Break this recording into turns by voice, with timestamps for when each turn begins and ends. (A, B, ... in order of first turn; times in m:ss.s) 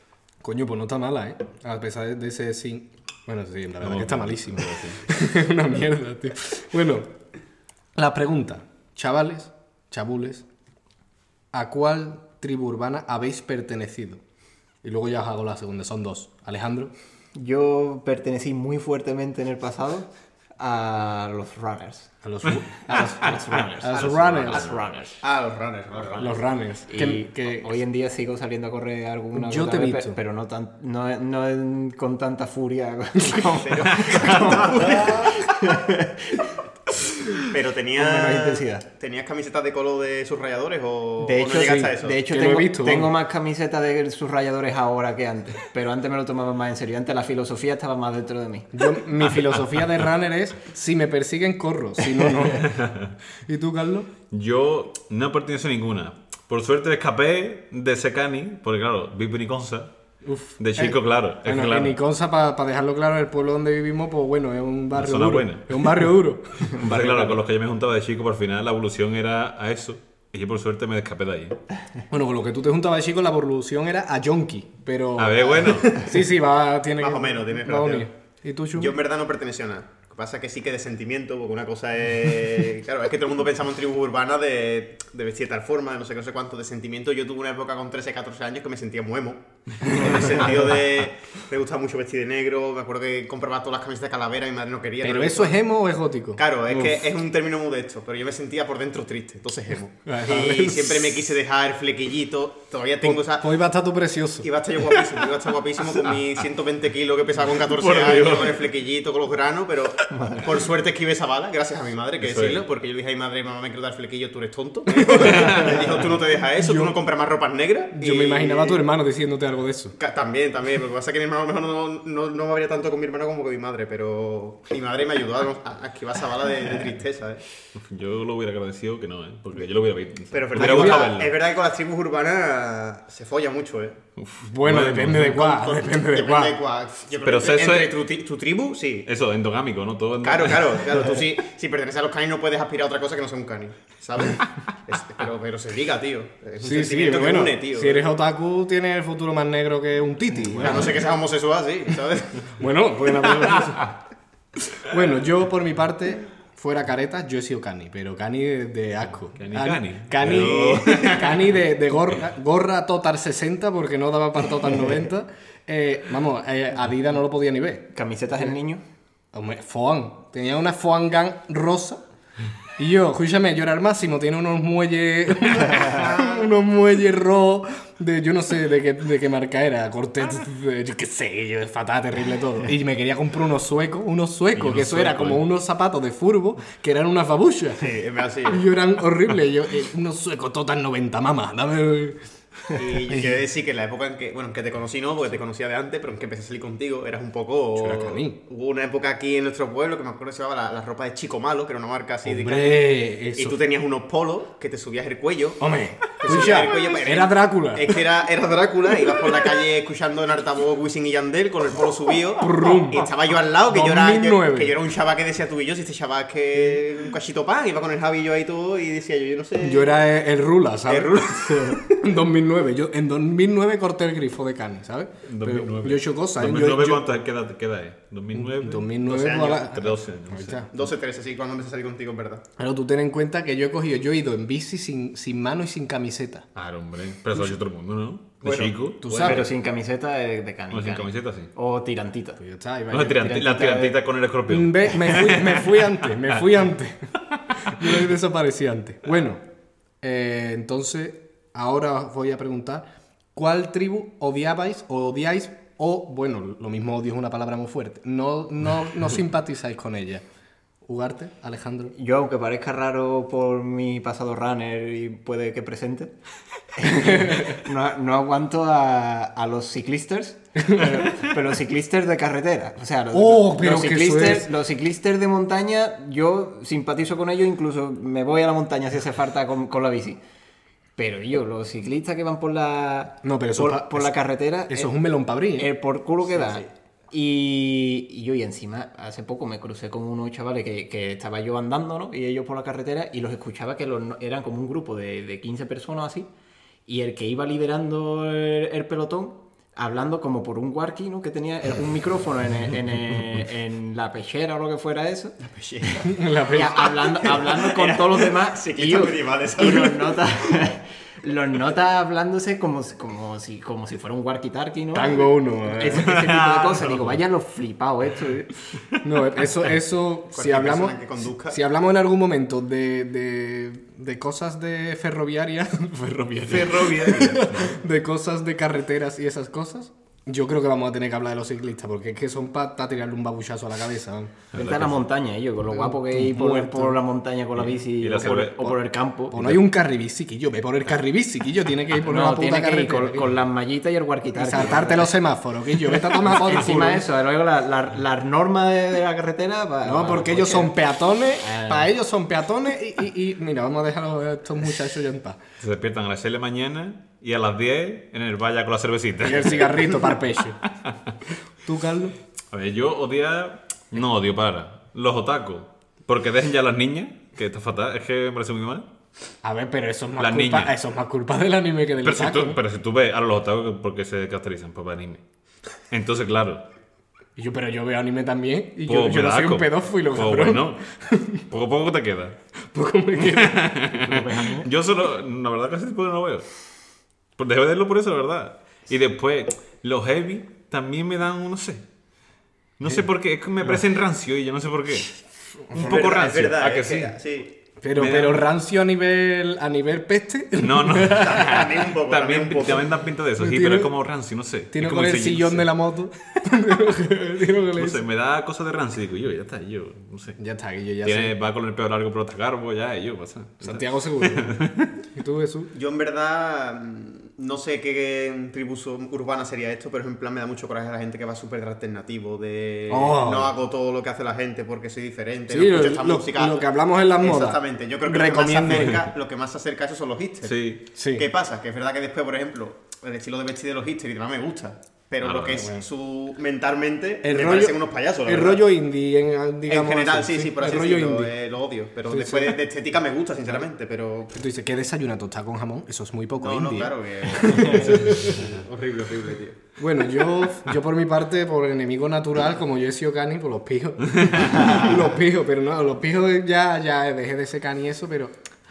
0:00.4-0:07.1 A
0:03.8-0:05.0 B
0:08.0-0:10.4 A
0:11.5-0:14.2 A
0:14.8-0:16.9 A
0:17.3-0:22.1 C
0:22.2-0:24.7 A
0:22.9-0:25.2 C
0:23.9-0:24.8 B
0:25.2-0:26.4 D
0:26.2-0:27.7 A
0:26.9-0:36.5 C
0:29.3-0:30.2 A
0:33.6-0:35.5 D
0:37.5-0:42.2 D
0:37.9-0:38.8 C
0:41.2-0:49.3 C
0:41.7-0:43.1 A
0:48.7-0:52.8 A
0:52.6-0:53.1 B
0:53.4-0:54.1 A
0:54.3-0:59.9 B
1:00.2-1:06.7 A
1:00.6-1:02.0 B
1:04.9-1:06.1 B
1:06.6-1:11.6 B
1:06.8-1:07.4 C
1:12.1-1:18.9 A
1:15.2-1:16.0 B
1:17.0-1:18.1 D
1:18.7-1:35.6 D
1:29.9-1:30.3 A
1:35.0-1:37.0 A
1:36.4-1:43.5 D
1:40.0-1:41.1 A
1:43.0-1:44.5 A
1:44.4-1:58.8 D
1:47.6-1:48.6 B
1:50.1-1:50.6 C
1:52.2-1:52.6 B
1:54.9-1:55.8 A
1:56.6-1:57.0 A
1:57.9-1:59.9 A
2:00.0-2:07.4 D
2:07.7-2:11.3 B
2:10.3-2:14.0 D
2:10.6-2:11.1 A
2:14.2-2:15.4 B
2:14.4-2:16.6 A
2:15.0-2:19.0 D
2:17.2-2:18.0 B
2:19.0-2:20.9 B
2:20.2-2:28.0 D
2:26.6-2:31.0 A
2:30.4-2:32.6 D
2:32.6-2:33.9 A
2:34.8-2:47.8 A
2:39.4-2:41.5 B
2:40.2-2:41.2 D
2:47.9-2:48.8 C
2:49.3-2:52.0 A
2:52.8-3:07.8 A
3:04.5-3:05.4 B
3:07.8-3:08.7 D
3:08.5-3:12.2 A
3:12.7-3:25.6 D
3:13.1-3:13.3 A
3:17.8-3:18.4 A
3:22.2-3:23.6 A
3:25.6-3:27.9 A
3:26.2-3:40.0 D
3:32.4-3:33.1 A
3:33.7-3:34.7 A
3:39.6-3:47.0 A
3:40.8-3:42.1 D
3:45.2-3:50.6 B
3:48.3-3:50.7 A
3:49.1-3:49.7 D
3:50.7-3:52.4 D
3:52.6-3:56.5 A
3:56.5-3:59.5 B
3:59.0-3:59.4 A
3:59.1-4:02.4 C
4:00.7-4:01.5 B
4:02.4-4:03.3 A
4:02.9-4:06.4 B
4:03.1-4:04.0 C
4:04.5-4:09.4 A
4:07.6-4:08.0 B
4:10.0-4:20.2 A
4:20.8-4:21.9 A
4:21.9-4:26.1 C
4:26.8-4:40.2 C
4:27.0-4:27.4 A
4:30.6-4:30.9 A
4:33.1-4:34.5 A
4:41.0-4:44.9 C
4:43.2-4:44.1 A
4:44.7-4:45.7 A
4:45.6-4:56.3 C
4:56.9-5:05.9 C
5:05.5-5:10.3 D
5:06.0-5:06.9 A
5:06.5-5:18.6 C
5:14.9-5:16.4 A
5:16.0-5:17.1 B
5:19.0-5:21.0 A
5:20.3-5:21.6 D
5:21.5-5:34.3 A
5:26.5-5:27.4 C
5:26.8-5:27.8 B
5:34.5-5:35.1 B
5:34.5-5:39.5 C
5:35.6-5:37.0 A
5:37.6-5:38.7 B
5:38.2-5:38.5 A
5:39.3-5:43.2 A
5:42.0-5:45.1 C
5:44.4-5:47.0 A
5:45.8-5:50.7 C
5:49.8-5:55.4 A
5:51.4-5:51.9 C
5:55.6-6:00.1 B
5:59.2-6:00.6 A
6:01.6-6:02.2 A
6:02.5-6:08.9 B
6:09.4-6:12.6 A
6:10.2-6:10.7 B
6:12.0-6:15.2 B
6:15.9-6:16.6 B
6:17.4-6:21.4 A
6:18.9-6:20.8 B
6:21.5-6:22.4 B
6:22.7-6:23.8 A
6:23.2-6:26.5 B
6:23.9-6:24.7 C
6:27.4-6:31.8 B
6:32.8-6:35.1 B
6:35.7-6:36.0 A
6:35.7-6:37.2 B
6:35.7-6:37.5 D
6:37.8-6:41.6 A
6:37.9-6:38.5 B
6:40.6-6:45.7 B
6:41.2-6:42.9 D
6:43.4-6:43.9 A
6:44.7-6:48.0 A
6:47.7-6:50.4 B
6:50.4-6:51.3 A
6:51.0-6:54.9 B
6:53.6-6:54.6 A
6:55.1-6:55.7 A
6:55.7-7:06.7 D
7:02.9-7:03.5 A
7:05.5-7:09.1 A
7:07.2-7:10.6 D
7:10.4-7:10.8 B
7:10.9-7:11.2 A
7:11.1-7:18.6 D
7:15.2-7:15.7 B
7:17.2-7:21.3 A
7:19.7-7:24.3 D
7:22.1-7:22.6 A
7:24.3-7:28.5 A
7:26.4-7:29.6 D
7:29.8-7:38.3 A